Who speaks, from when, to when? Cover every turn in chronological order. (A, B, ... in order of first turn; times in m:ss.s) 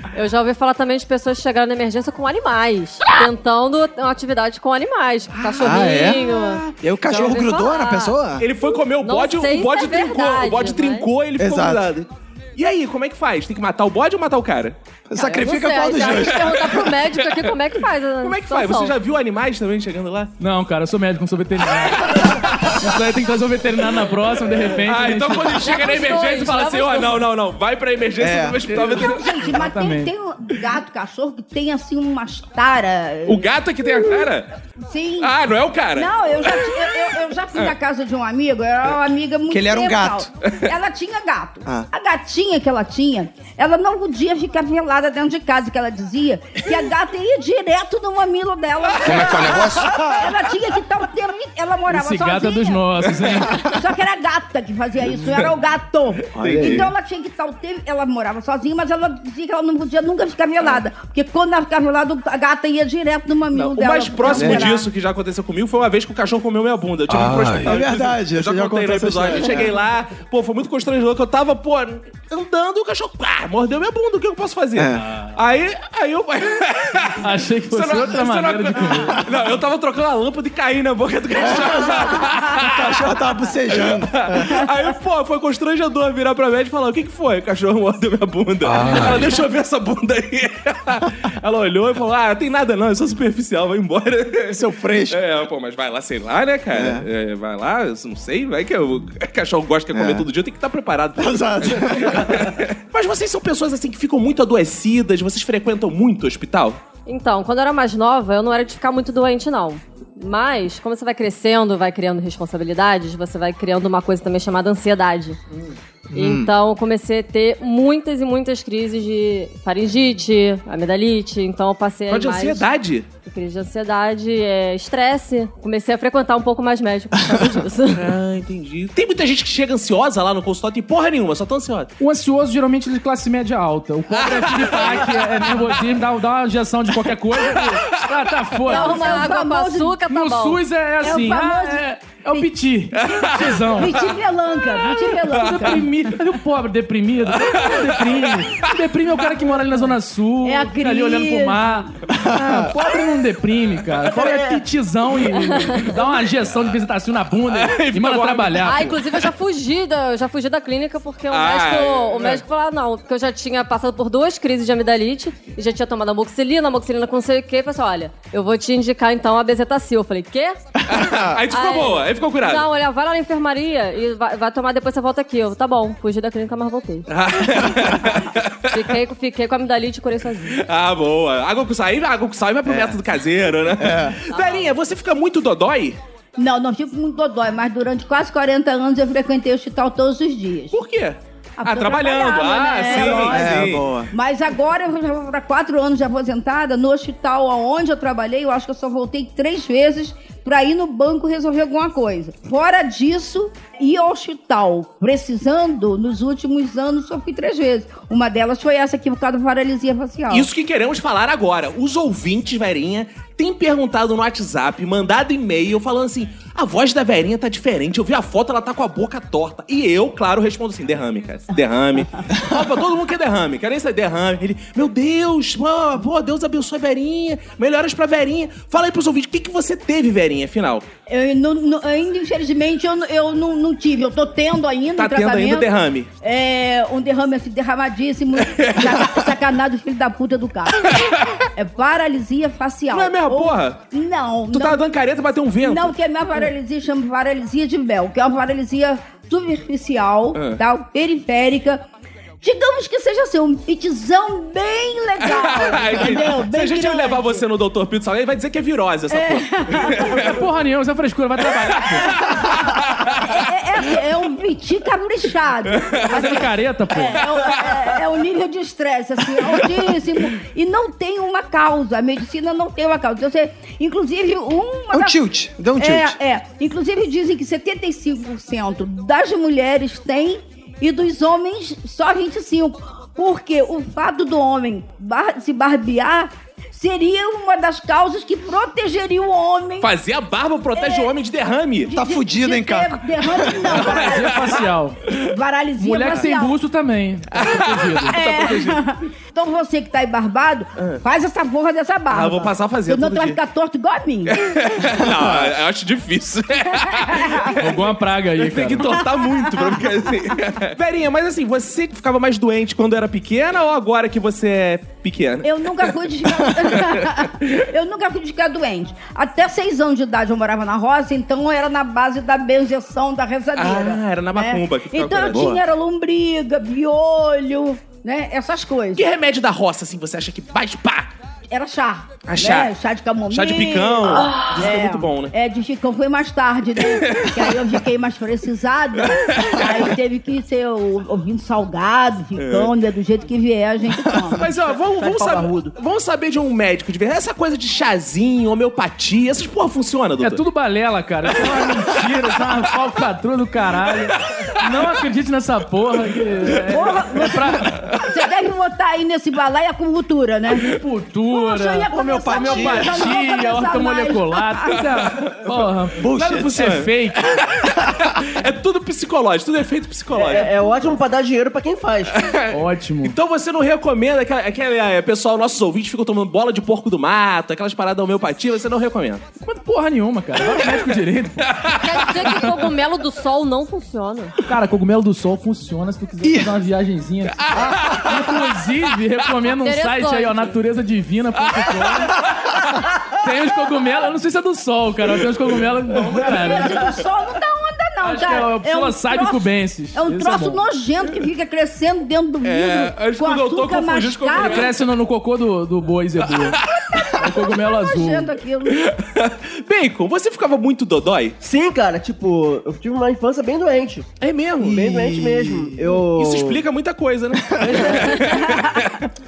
0:00.1-0:08.1 A
0:05.3-0:06.7 B
0:05.6-0:06.2 C
0:06.8-0:08.5 C
0:08.4-0:14.8 B
0:09.0-0:11.1 A
0:11.4-0:11.9 C
0:15.1-0:16.8 C
0:15.2-0:18.9 A
0:16.1-0:17.6 B
0:18.2-0:20.3 B
0:20.4-0:25.8 D
0:24.8-0:29.3 B
0:25.6-0:27.2 A
0:28.2-0:28.6 C
0:28.8-0:30.1 D
0:28.8-0:34.3 E
0:33.2-0:34.5 B
0:34.8-0:35.3 E
0:35.2-0:36.9 B
0:35.9-0:52.8 E
0:39.5-0:40.3 C
0:49.0-0:50.3 C
0:49.1-0:49.8 B
0:51.9-0:53.8 D
0:53.4-1:04.9 E
0:56.3-0:56.9 B
0:56.3-0:56.9 C
1:03.5-1:23.2 B
1:04.3-1:04.7 C
1:07.2-1:09.7 C
1:14.7-1:15.1 C
1:17.2-1:19.2 D
1:21.3-1:24.7 C
1:23.7-1:46.8 B
1:28.7-1:29.2 C
1:34.5-1:35.2 C
1:36.7-1:37.1 C
1:39.9-1:40.3 C
1:41.2-1:42.6 C
1:47.0-1:55.4 A
1:56.1-1:56.5 C
1:56.1-2:02.7 A
2:02.1-2:03.1 B
2:03.2-2:08.1 A
2:07.9-2:11.9 B
2:12.0-2:19.3 D
2:14.1-2:15.6 B
2:17.6-2:18.2 B
2:18.7-2:20.0 E
2:18.7-2:20.6 A
2:20.1-2:24.1 D
2:21.0-2:22.5 E
2:22.9-2:24.1 B
2:23.8-2:25.8 E
2:25.2-2:25.8 B
2:25.2-2:38.9 D
2:27.3-2:28.7 B
2:30.4-2:31.9 E
2:32.1-2:32.9 C
2:34.1-2:34.6 F
2:35.5-2:35.8 A
2:37.5-2:39.3 B
2:38.6-2:50.6 A
2:41.3-2:42.4 B
2:50.9-2:52.6 B
2:51.0-2:51.4 C
2:51.5-2:57.1 A
2:57.1-2:58.9 B
2:58.7-3:00.6 A
3:00.5-3:06.0 B
3:02.6-3:03.0 C
3:03.8-3:04.2 C
3:04.3-3:04.7 A
3:06.4-3:10.8 E
3:10.7-3:13.9 B
3:11.6-3:30.5 E
3:12.9-3:14.1 C
3:30.3-3:50.8 B
3:51.1-3:55.7 E
3:55.0-3:56.1 B
3:56.2-4:04.8 E
3:58.4-3:59.2 B
4:00.9-4:01.2 B
4:02.9-4:03.8 B
4:04.5-4:06.4 B
4:05.6-4:11.8 E
4:10.3-4:10.6 B
4:12.4-4:17.4 E
4:15.2-4:20.4 B
4:19.1-4:20.3 E
4:20.1-4:22.2 D
4:21.9-4:23.3 B
4:22.2-4:35.2 E
4:25.8-4:26.3 B
4:26.1-4:27.3 D
4:27.3-4:27.8 B
4:34.9-4:36.2 C
4:35.8-4:49.9 E
4:49.8-4:51.9 B
4:50.7-4:51.1 E
4:51.8-4:56.6 E
4:51.9-4:53.7 C
4:53.7-4:54.6 B
4:53.8-4:55.0 D
4:55.8-4:58.2 D
4:57.3-4:58.8 B
4:58.1-5:04.4 E
5:02.1-5:03.4 B
5:04.3-5:07.8 B
5:05.0-5:05.6 C
5:06.8-5:07.6 E
5:07.6-5:09.0 D
5:08.4-5:17.3 B
5:09.2-5:09.8 E
5:15.4-5:29.0 E
5:23.6-5:25.6 B
5:29.0-5:31.1 B
5:31.5-5:44.4 E
5:32.2-5:32.7 B
5:33.3-5:35.3 B
5:37.0-5:37.5 B
5:39.1-5:39.8 B
5:42.4-5:42.7 B
5:44.4-5:50.4 B
5:44.9-5:45.7 F
5:50.2-5:57.8 D
5:56.7-6:00.7 E
6:00.6-6:07.3 D
6:01.3-6:04.8 E
6:01.9-6:03.1 C
6:05.1-6:05.5 B
6:06.0-6:06.6 C
6:06.4-6:10.6 B
6:07.8-6:08.1 C
6:10.1-6:12.3 F
6:12.1-6:19.2 B
6:12.5-6:13.2 D
6:19.4-6:21.6 D
6:21.5-6:22.5 B
6:21.7-6:24.4 A
6:24.4-6:32.2 D
6:26.2-6:26.5 C
6:27.5-6:28.1 B
6:27.5-6:28.1 C
6:29.6-6:30.5 A
6:33.1-6:37.0 D
6:36.3-6:44.7 E
6:38.0-6:40.6 D
6:42.4-6:44.8 B
6:44.4-6:46.6 D
6:46.4-6:47.1 B
6:46.9-6:48.8 E
6:47.1-6:48.3 D
6:48.7-6:51.4 B
6:51.4-6:54.1 F
6:54.2-6:54.9 B
6:54.6-6:55.9 C
6:54.6-6:56.6 F
6:56.0-6:59.0 B
6:57.6-6:58.1 F
6:58.4-6:58.7 E